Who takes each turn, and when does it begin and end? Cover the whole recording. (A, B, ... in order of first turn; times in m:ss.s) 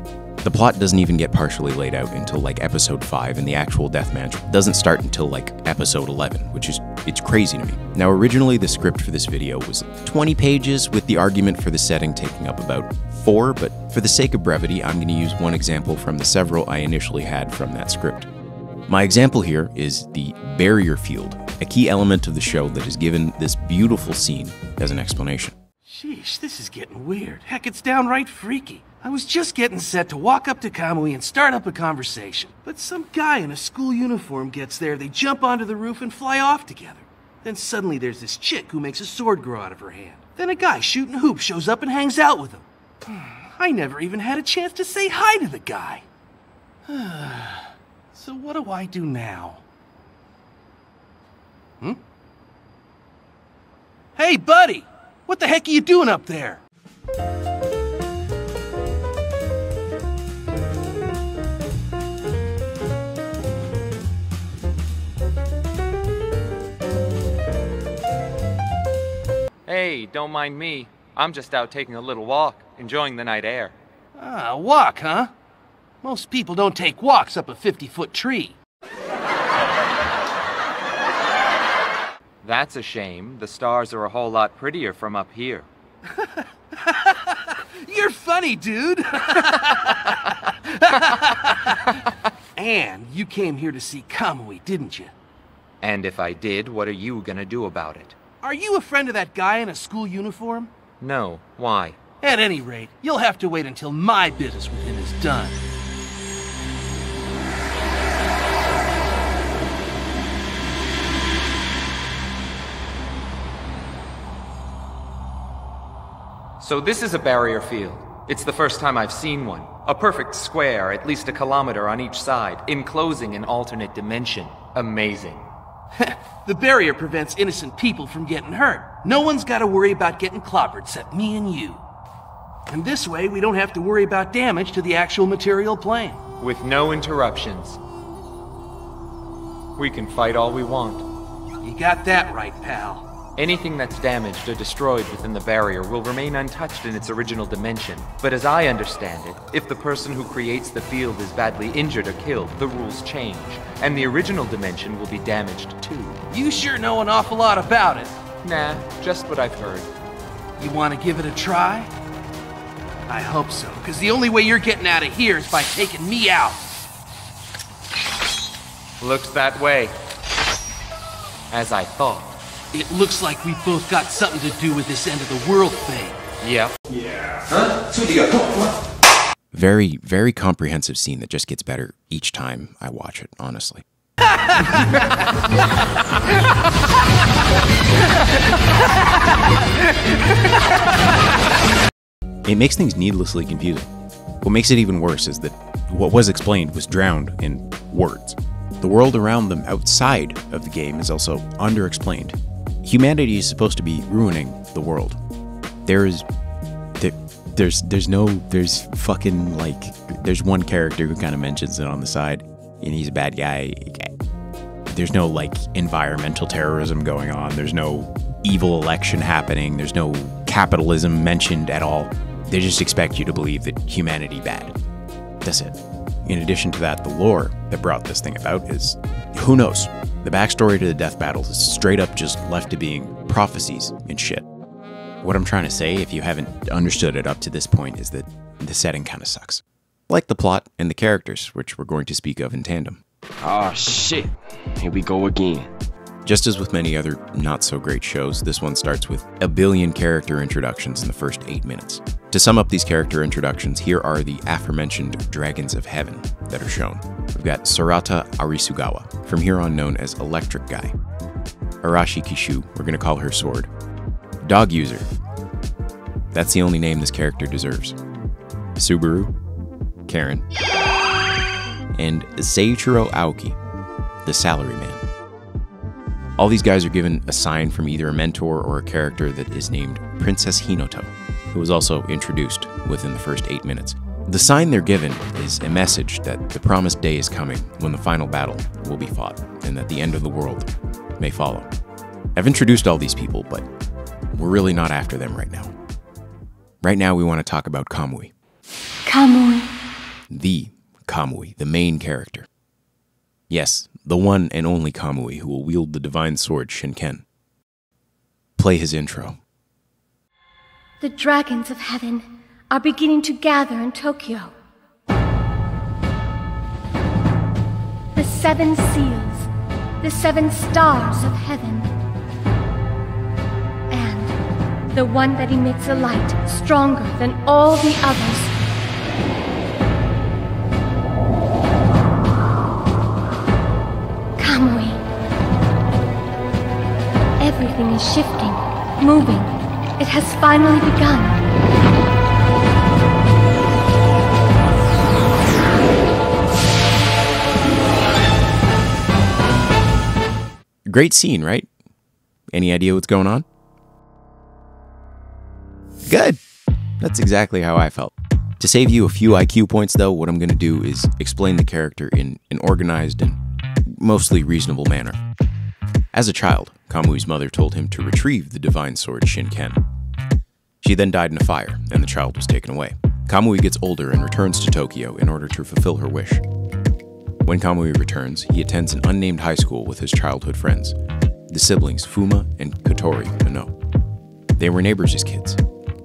0:00.4-0:18.3 A
0:18.9-0:25.6 A
0:25.9-0:46.0 B
0:46.9-0:49.6 B
0:54.2-0:56.6 B
1:09.7-1:13.7 C
1:14.2-1:15.3 B
1:16.0-1:18.6 B
1:22.4-1:25.7 C
1:26.8-1:31.7 B
1:32.6-1:35.1 B
1:35.8-1:38.2 C
1:38.4-1:40.7 B
1:41.0-1:42.0 C
1:42.2-1:45.6 B
1:56.6-2:05.5 C
2:06.0-2:11.8 B
2:12.7-2:16.2 B
2:16.4-2:17.8 C
2:19.8-2:21.0 C
2:21.6-2:23.1 B
2:23.4-2:36.2 C
2:36.3-2:38.2 B
2:38.4-2:39.9 C
2:40.6-2:41.9 B
2:43.1-2:46.7 B
2:49.0-2:49.9 C
2:51.5-2:52.4 C
2:52.7-2:56.2 B
2:56.4-2:56.7 C
2:59.5-3:03.8 A
3:12.4-3:13.9 A
3:14.4-3:25.2 A
3:25.8-3:26.3 A
3:27.0-3:34.1 A
3:34.9-3:44.8 A
3:45.4-3:54.5 A
3:55.2-4:03.0 A
4:03.4-4:05.7 D
4:06.2-4:20.9 A
4:21.8-4:23.7 A
4:24.4-4:25.1 A
4:26.3-4:28.0 A
4:28.8-4:29.3 A
4:30.1-4:30.4 A
4:32.0-4:33.6 A
4:34.2-4:35.0 A
4:36.4-4:51.7 A
4:52.4-4:53.7 A
4:54.3-4:55.7 A
4:56.8-4:58.3 A
4:59.0-4:59.7 E
5:00.3-5:02.5 A
5:03.5-5:07.2 A
5:08.6-5:09.4 A
5:11.0-5:14.5 E
5:18.1-5:19.5 E
5:20.0-5:21.9 E
5:23.9-5:24.4 E
5:24.9-5:28.6 E
5:34.4-5:35.0 E
5:37.4-5:41.4 E
5:50.9-5:51.7 A
5:52.5-5:53.5 A
5:56.1-5:56.4 A
5:57.0-6:05.2 A
6:06.1-6:09.8 A
6:10.8-6:16.4 A
6:17.4-6:21.0 A
6:21.5-6:23.7 A
6:24.6-6:25.6 A